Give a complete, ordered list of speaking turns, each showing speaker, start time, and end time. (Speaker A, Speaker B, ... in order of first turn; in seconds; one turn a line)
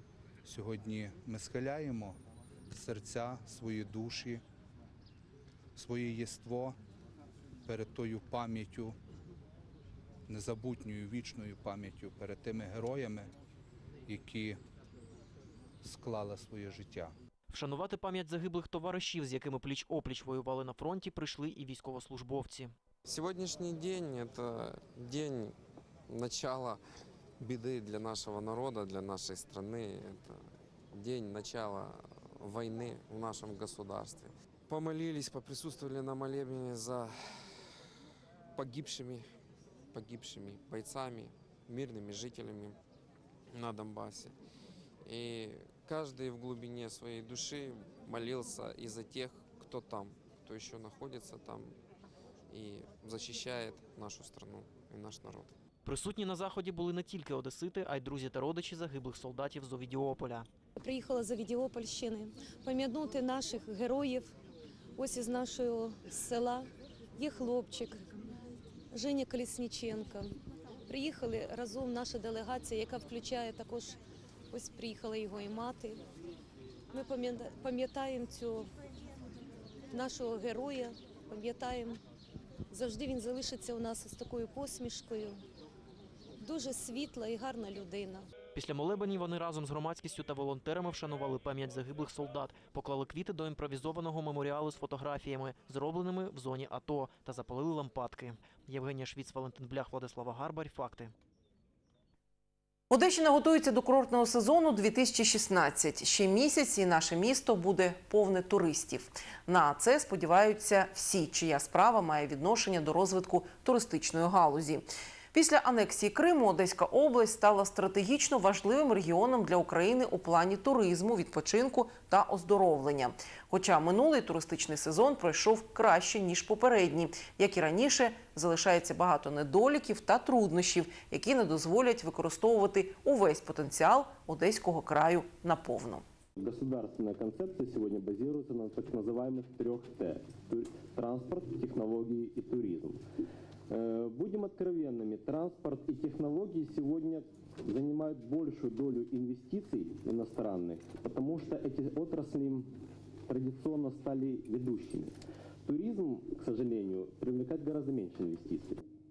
Speaker A: 0.4-2.2
Speaker A: 2.7-4.4
Speaker A: 5.7-6.8
Speaker A: 7.7-8.9
Speaker A: 10.3-13.3
Speaker A: 14.1-14.6
Speaker A: 15.8-17.1
Speaker B: 17.5-22.7
Speaker C: 23.0-25.5
Speaker C: 26.1-26.8
Speaker C: 27.4-37.5
Speaker C: 38.5-39.2
Speaker C: 39.9-42.8
Speaker C: 43.5-44.3
Speaker C: 45.0-51.7
Speaker C: 52.5-55.5
Speaker B: 55.8-60.5
Speaker D: 60.8-64.3
Speaker D: 65.0-68.0
Speaker D: 68.9-70.3
Speaker D: 70.9-74.0
Speaker D: 74.5-76.0
Speaker D: 76.9-78.7
Speaker D: 79.9-82.0
Speaker D: 82.7-85.4
Speaker D: 86.4-88.3
Speaker B: 88.5-101.1
Speaker E: 102.9-136.0
Speaker F: 136.3-143.0
Speaker F: 143.7-152.7
Speaker F: 153.3-158.8